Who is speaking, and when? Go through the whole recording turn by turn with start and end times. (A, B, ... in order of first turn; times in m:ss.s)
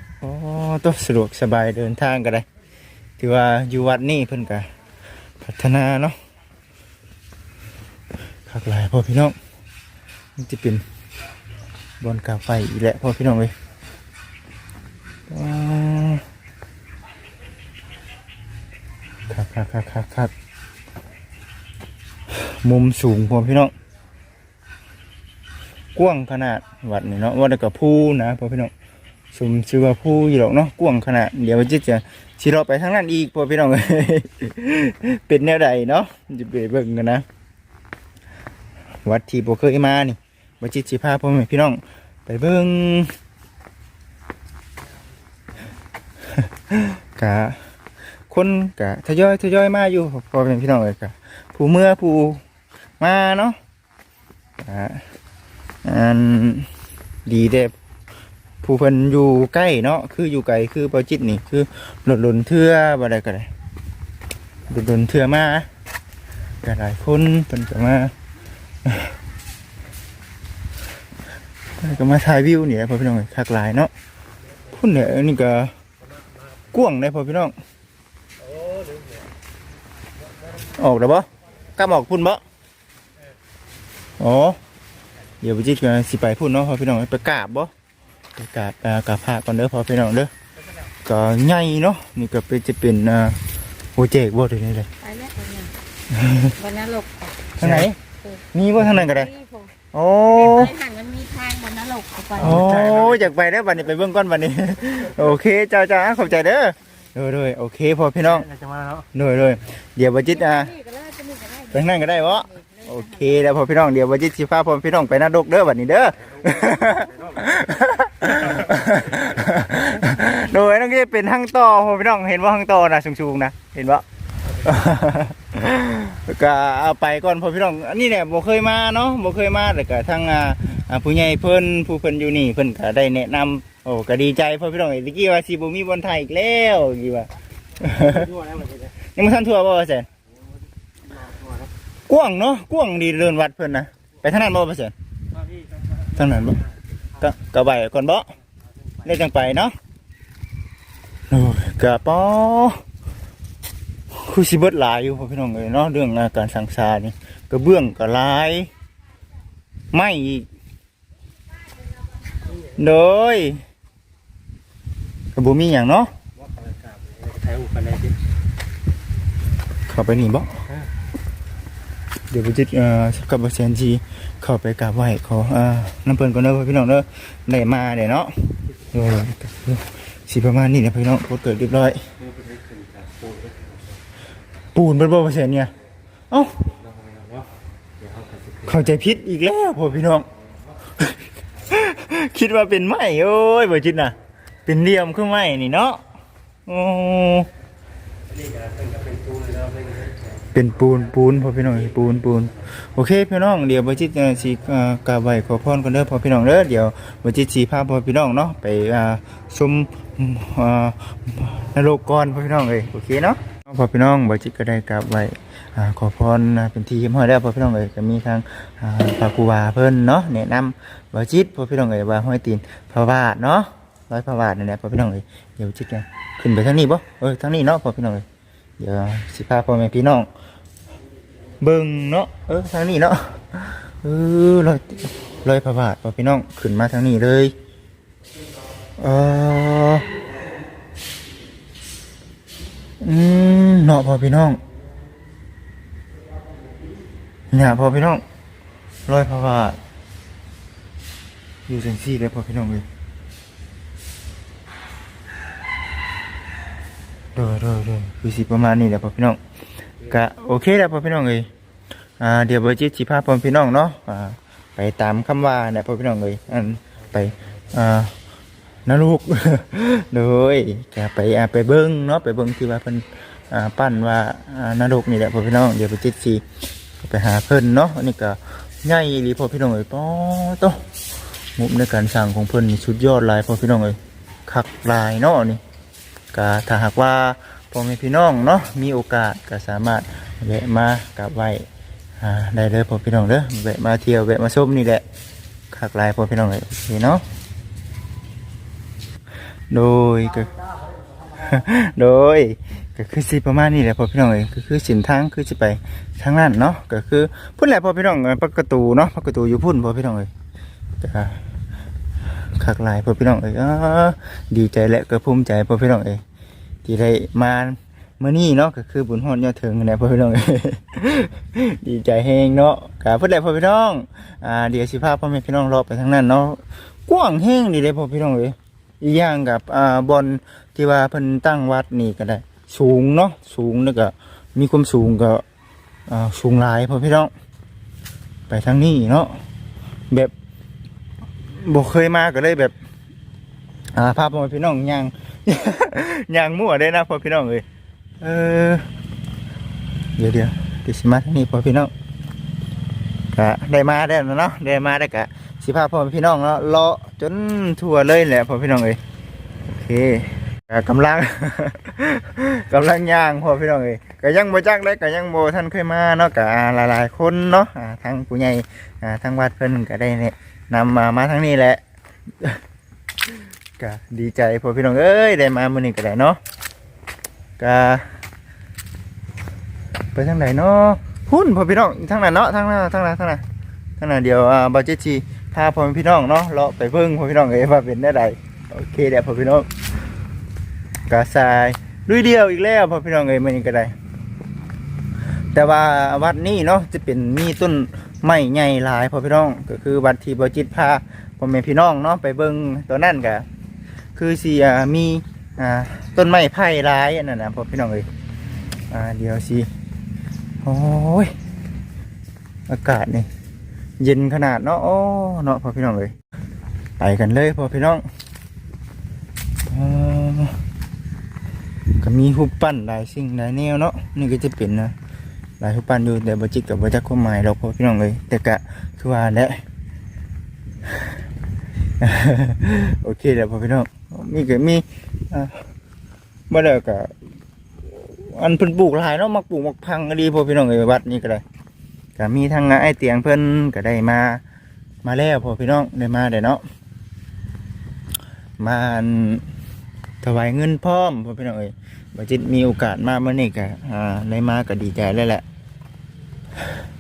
0:00.2-0:02.5 A
0:03.2-0:04.7 A
0:05.4-0:06.2 A
0:08.5-0:09.4 A
0:10.4-0:10.8 A
0:12.0-0:13.5 A
0:15.3-0:16.2 A
0:19.3-0:20.3 A
0:22.3-0:23.7 A
0:26.0-0:28.7 A
0:29.3-0:37.2 A
0:39.0-0:43.1 A
0:46.3-0:47.6 A
0:48.3-0:52.4 A
0:53.0-0:53.6 A
0:54.6-0:55.0 A
0:55.8-0:56.7 A
0:57.2-0:57.7 A
0:58.6-1:03.5 A
1:04.7-1:05.7 A
1:06.6-1:08.1 A
1:08.8-1:09.2 A
1:11.8-1:13.9 A
1:14.7-1:15.7 A
1:16.7-1:17.6 A
1:18.7-1:19.2 B
1:20.7-1:22.4 A
1:24.2-1:24.6 A
1:25.4-1:27.7 A
1:28.4-1:30.3 A
1:31.0-1:33.4 A
1:34.0-1:34.9 A
1:35.0-1:35.7 C
1:36.1-1:36.6 A
1:36.6-1:37.5 C
1:37.6-1:38.0 A
1:37.6-1:37.9 B
1:38.5-1:39.3 A
1:38.8-1:39.1 B
1:39.1-1:39.7 C
1:39.9-1:40.8 A
1:40.3-1:42.6 C
1:42.4-1:43.3 B
1:42.4-1:48.5 A
1:48.2-1:49.1 B
1:49.1-1:50.7 A
1:50.3-1:53.5 C
1:51.7-2:18.3 A
1:56.4-1:57.6 B
2:17.8-2:18.9 B
2:19.1-2:20.1 A
2:21.1-2:21.7 B
2:22.1-2:24.9 A
2:26.1-2:26.6 A
2:27.2-2:28.3 A
2:29.0-2:29.7 A
2:31.3-2:32.8 A
2:34.1-2:38.7 A
2:39.9-2:40.5 A
2:42.7-2:43.6 A
2:45.4-2:46.1 A
2:46.4-2:48.2 B
2:49.9-2:50.6 A
2:52.3-3:02.0 A
3:02.2-3:04.0 B
3:04.7-3:05.7 A
3:06.3-3:06.6 A
3:06.6-3:09.0 B
3:08.7-3:10.3 A
3:11.7-3:14.1 A
3:14.7-3:16.0 A
3:16.7-3:17.5 A
3:18.3-3:20.4 B
3:20.5-3:48.2 A
3:48.8-3:50.3 A
3:51.6-3:57.5 A
3:59.0-4:00.1 A
4:03.0-4:04.6 A
4:07.5-4:08.2 A
4:09.1-4:09.8 A
4:11.7-4:12.9 A
4:17.4-4:19.4 A
4:20.0-4:21.5 A
4:22.2-4:28.1 A
4:28.9-4:36.4 A
4:37.0-4:40.8 A
4:41.6-4:45.6 A
4:46.3-4:51.6 A
4:52.2-4:55.0 A
4:55.7-4:57.2 A
4:59.7-5:00.6 A
5:01.3-5:10.3 A
5:11.0-5:11.4 A
5:12.6-5:16.2 A
5:16.8-5:35.4 A
5:36.1-5:37.3 A
5:38.5-5:39.3 A
5:41.6-5:42.7 A
5:44.0-5:47.6 A
5:48.2-5:48.9 A
5:50.2-5:51.9 A
5:53.3-5:59.0 A
5:59.7-6:11.8 A
6:13.8-6:16.4 A
6:17.6-6:18.1 A
6:20.1-6:23.4 A
6:24.0-6:29.7 A
6:31.1-6:33.9 A
6:35.5-6:43.4 A
6:44.2-6:48.1 A
6:48.9-6:49.7 A
6:50.6-6:51.3 A
6:52.7-6:53.3 A
6:54.0-6:56.1 A
6:57.0-6:58.0 A
6:59.6-7:00.6 A
7:02.0-7:04.9 A
7:05.6-7:09.6 A
7:12.0-7:15.6 A
7:16.5-7:17.1 A
7:18.0-7:21.4 A
7:22.2-7:24.4 A
7:25.0-7:26.6 A
7:28.6-7:29.4 A
7:30.2-7:35.4 A